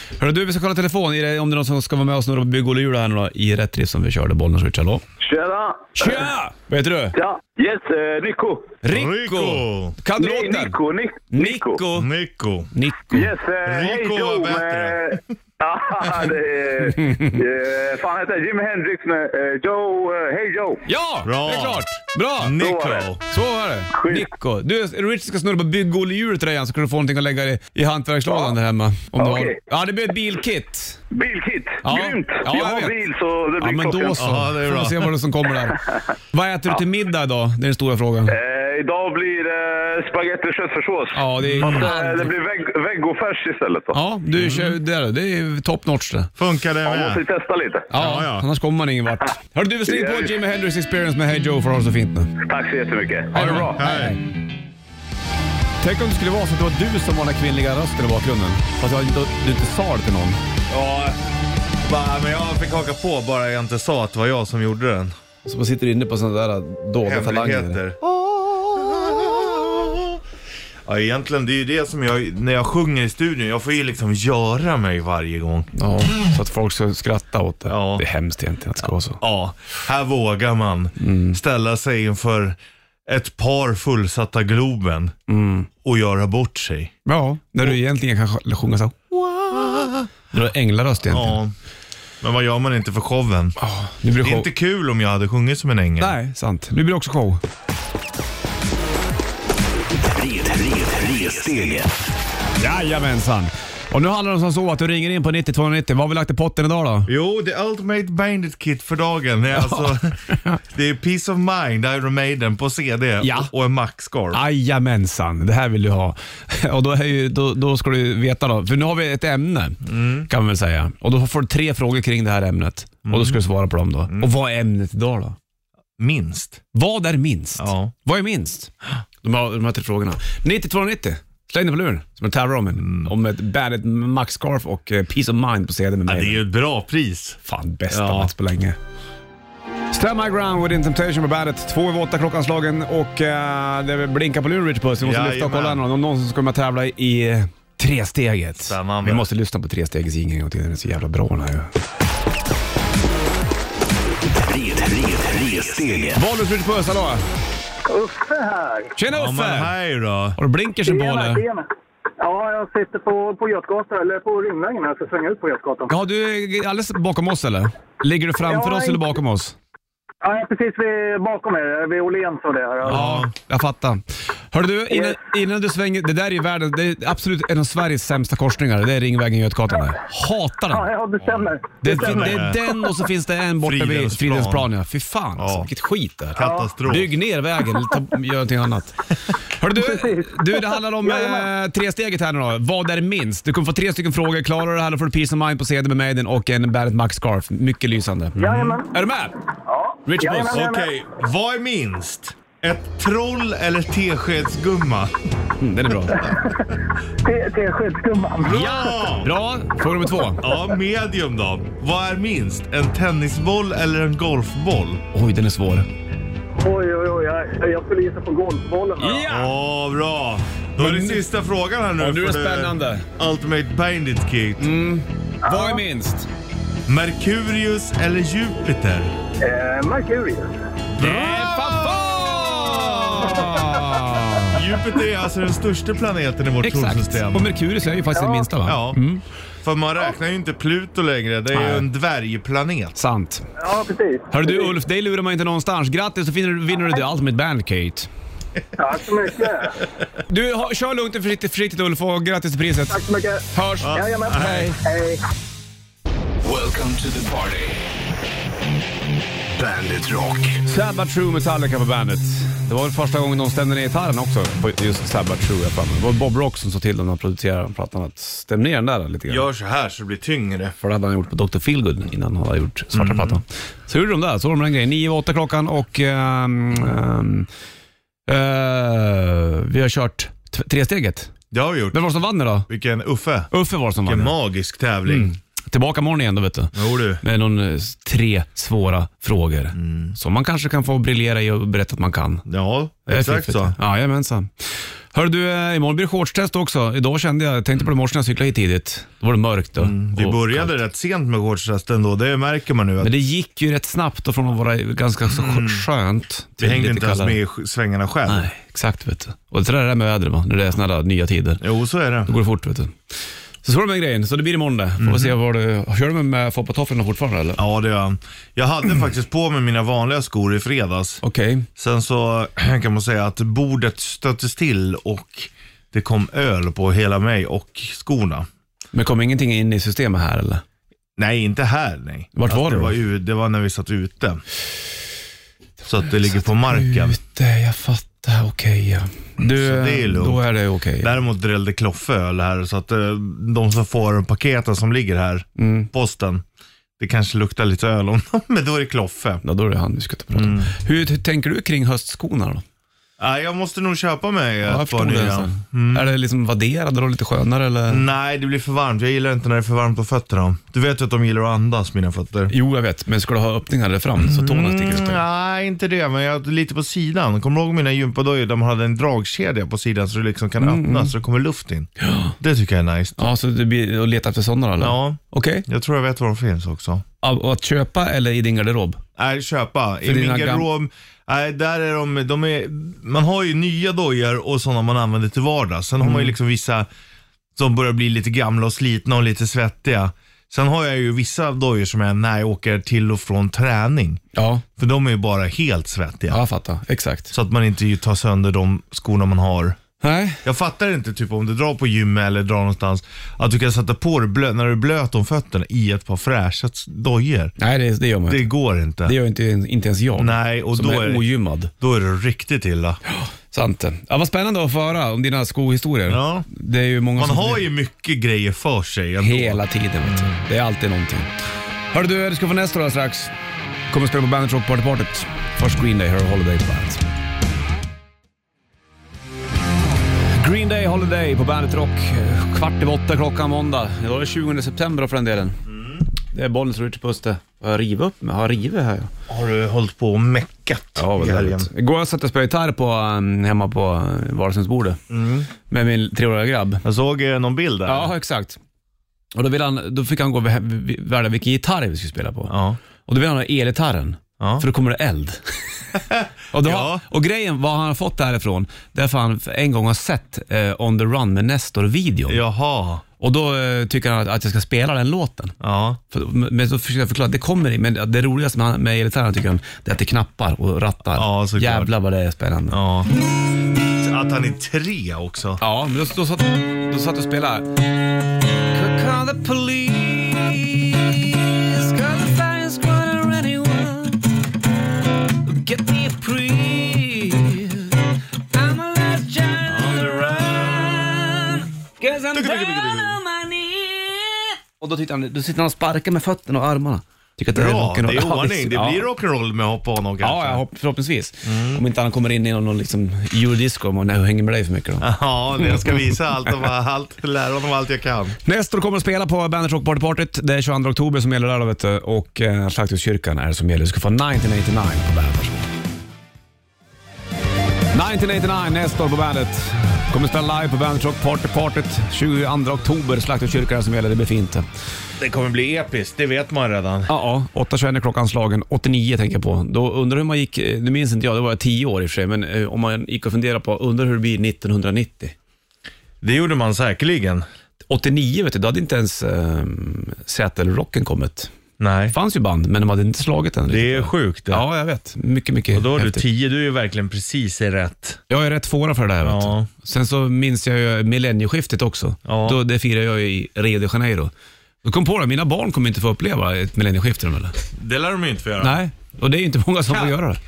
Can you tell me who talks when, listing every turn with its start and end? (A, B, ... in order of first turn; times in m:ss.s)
0:00.2-0:05.0 A
0:05.2-0:06.2 B
0:06.0-0:07.2 A
0:07.2-0:08.8 B
0:08.8-0:10.8 A
0:08.9-0:10.0 C
0:10.2-0:11.8 B
0:11.3-0:12.1 A
0:12.0-0:12.7 C
0:12.7-0:13.3 A
0:13.1-0:20.8 B
0:13.6-0:15.2 C
0:16.8-0:17.4 A
0:20.8-0:22.6 A
0:21.2-0:21.9 C
0:22.4-0:23.2 C
0:22.6-0:23.1 B
0:23.3-0:31.0 A
0:23.9-0:24.3 B
0:29.2-0:29.6 B
0:31.1-0:34.2 B
0:31.8-0:33.0 A
0:33.6-0:38.4 A
0:34.2-0:35.1 C
0:35.7-0:36.0 B
0:38.3-0:44.0 B
0:41.1-0:42.4 A
0:41.6-0:41.9 C
0:43.9-0:46.3 A
0:44.4-0:44.8 C
0:46.4-0:47.2 C
0:46.9-0:47.9 B
0:47.9-0:52.3 A
0:47.9-0:48.5 C
0:49.9-0:50.4 B
0:52.4-0:53.8 B
0:53.3-0:54.2 A
0:53.5-0:54.2 C
0:55.8-1:00.4 A
1:00.7-1:01.2 C
1:01.8-1:05.1 C
1:05.4-1:07.8 A
1:07.0-1:10.2 C
1:10.8-1:15.7 C
1:15.8-1:19.2 A
1:17.7-1:18.0 C
1:19.2-1:25.2 C
1:21.0-1:21.4 A
1:25.3-1:25.7 A
1:25.8-1:26.9 C
1:27.1-1:29.0 A
1:29.1-1:30.1 C
1:30.3-1:31.4 A
1:31.1-1:31.5 C
1:32.2-1:33.6 C
1:33.6-1:34.5 A
1:34.2-1:36.2 C
1:36.0-1:37.4 A
1:40.0-1:41.9 D
1:42.6-1:47.1 A
1:47.1-1:54.4 C
1:49.6-1:50.6 A
1:53.2-1:53.5 A
1:54.3-2:05.4 A
1:59.8-2:00.3 C
2:03.1-2:03.4 C
2:06.0-2:06.6 C
2:06.7-2:08.7 A
2:07.6-2:07.9 C
2:09.2-2:16.4 A
2:12.8-2:13.1 C
2:16.1-2:17.4 C
2:17.4-2:18.8 A
2:17.9-2:18.3 C
2:19.9-2:31.7 A
2:25.0-2:25.8 C
2:28.6-2:29.3 C
2:34.4-2:36.2 D
2:36.1-2:37.2 A
2:37.9-2:38.9 E
2:39.0-2:39.7 A
2:39.1-2:40.4 C
2:40.4-2:41.4 A
2:40.8-2:41.7 E
2:42.2-2:45.9 E
2:45.9-2:49.6 A
2:48.5-2:49.1 E
2:50.2-2:53.0 E
2:52.8-2:53.3 C
2:52.9-2:54.0 A
2:54.5-3:00.9 A
3:00.7-3:02.9 E
3:01.3-3:02.6 C
3:01.8-3:19.4 A
3:03.6-3:04.7 C
3:05.4-3:05.7 C
3:06.4-3:07.1 C
3:06.4-3:06.7 E
3:09.7-3:11.5 E
3:18.4-3:18.9 E
3:18.4-3:18.8 C
3:19.7-3:20.9 E
3:20.0-3:20.7 A
3:20.5-3:25.2 C
3:25.6-3:26.3 A
3:26.1-3:28.9 E
3:28.4-3:29.3 C
3:28.5-3:30.4 A
3:30.4-3:35.0 C
3:35.1-3:35.9 A
3:36.6-3:39.3 E
3:39.0-3:39.6 A
3:39.3-3:44.7 C
3:40.8-3:41.2 A
3:42.0-3:43.1 A
3:44.6-3:46.3 A
3:45.5-3:45.8 E
3:46.9-3:49.1 C
3:49.4-3:50.5 E
3:50.9-3:53.7 C
3:51.0-3:54.6 A
3:54.4-3:57.5 C
3:56.6-3:59.2 A
3:58.1-3:58.5 E
3:58.6-3:59.0 C
3:59.6-4:03.0 C
4:01.5-4:01.9 A
4:03.0-4:03.4 A
4:03.6-4:04.7 E
4:04.3-4:08.1 A
4:08.8-4:09.8 E
4:10.3-4:13.0 A
4:12.9-4:15.2 E
4:13.5-4:14.8 A
4:13.8-4:14.7 C
4:16.4-4:17.8 D
4:19.6-4:20.6 D
4:20.6-4:29.5 A
4:29.3-4:30.8 C
4:30.8-4:37.5 A
4:32.9-4:33.4 C
4:38.3-4:41.3 A
4:41.5-4:42.1 C
4:41.9-4:42.7 A
4:42.7-4:43.5 C
4:43.5-4:44.4 A
4:44.0-4:45.3 C
4:45.1-4:52.4 A
4:46.8-4:47.2 C
4:49.8-4:50.2 C
4:52.5-4:53.8 C
4:53.1-5:00.8 A
4:59.8-5:03.1 C
5:03.0-5:07.4 A
5:05.3-5:05.9 C
5:06.6-5:08.5 C
5:08.3-5:11.6 A
5:11.6-5:12.3 C
5:12.3-5:13.0 A
5:13.6-5:17.6 A
5:15.0-5:15.3 C
5:17.6-5:21.2 C
5:21.2-5:21.7 A
5:21.8-5:28.5 C
5:28.9-5:30.6 A
5:31.2-5:34.4 C
5:32.4-5:33.0 A
5:35.8-5:37.2 C
5:36.7-5:41.1 A
5:39.4-5:40.5 C
5:41.0-5:46.4 C
5:45.6-5:45.9 A
5:47.0-5:49.4 C
5:49.4-5:52.6 A
5:50.3-5:50.7 C
5:53.2-5:56.1 C
5:54.6-5:58.0 A
5:57.9-6:02.5 C
6:02.5-6:05.2 A
6:04.2-6:13.2 C
6:10.6-6:11.1 A
6:12.0-6:12.3 A
6:13.2-6:15.7 A
6:14.8-6:17.0 C
6:17.2-6:19.0 A
6:19.2-6:26.9 C
6:20.0-6:20.7 A
6:26.0-6:26.3 A
6:27.6-6:34.2 C
6:34.4-6:34.6 A
6:34.8-6:36.4 C
6:36.3-6:37.3 A
6:37.3-6:39.8 C
6:40.0-6:40.4 A
6:40.4-6:47.6 C
6:47.6-6:48.5 A
6:48.3-6:49.2 C
6:49.0-6:51.7 A
6:50.2-6:51.3 C
6:51.8-6:53.0 C
6:53.1-6:57.6 A
6:56.1-6:56.5 C
6:57.2-7:00.4 C
6:59.2-7:01.3 A
7:01.9-7:03.3 A
7:03.9-7:07.1 A
7:10.3-7:15.6 A
7:15.7-7:16.0 C
7:16.1-7:19.1 A
7:19.3-7:21.7 C
7:21.0-7:25.0 A
7:25.1-7:25.5 C
7:25.7-7:26.8 A
7:26.8-7:28.1 C
7:27.9-7:28.6 A
7:29.3-7:32.5 A
7:32.5-7:32.8 C
7:33.0-7:35.6 A
7:34.4-7:34.6 C
7:36.1-7:37.0 C
7:36.5-7:42.4 A
7:42.3-7:43.0 C
7:43.2-7:45.6 A
7:45.6-7:46.0 C
7:46.1-7:52.8 A
7:51.2-7:51.9 C
7:52.7-7:53.1 C
7:54.0-7:55.6 C
7:55.6-7:57.7 A
7:58.7-8:04.2 A
8:05.4-8:19.1 A
8:09.7-8:10.5 C
8:12.3-8:13.2 C
8:17.5-8:20.6 C
8:20.2-8:26.1 A
8:21.4-8:21.8 C
8:25.0-8:28.4 C
8:28.4-8:35.7 A
8:37.9-8:44.6 A
8:45.2-8:47.1 C
8:47.1-8:55.4 A
8:56.2-8:57.4 C
8:57.9-9:01.5 A
9:01.8-9:02.2 C
9:02.1-9:06.2 A
9:03.7-9:04.7 C
9:05.7-9:08.2 C
9:08.3-9:14.3 A
9:09.2-9:09.7 C
9:12.3-9:12.6 C
9:14.8-9:17.6 A
9:17.7-9:18.8 C
9:18.6-9:20.4 A
9:19.9-9:20.2 C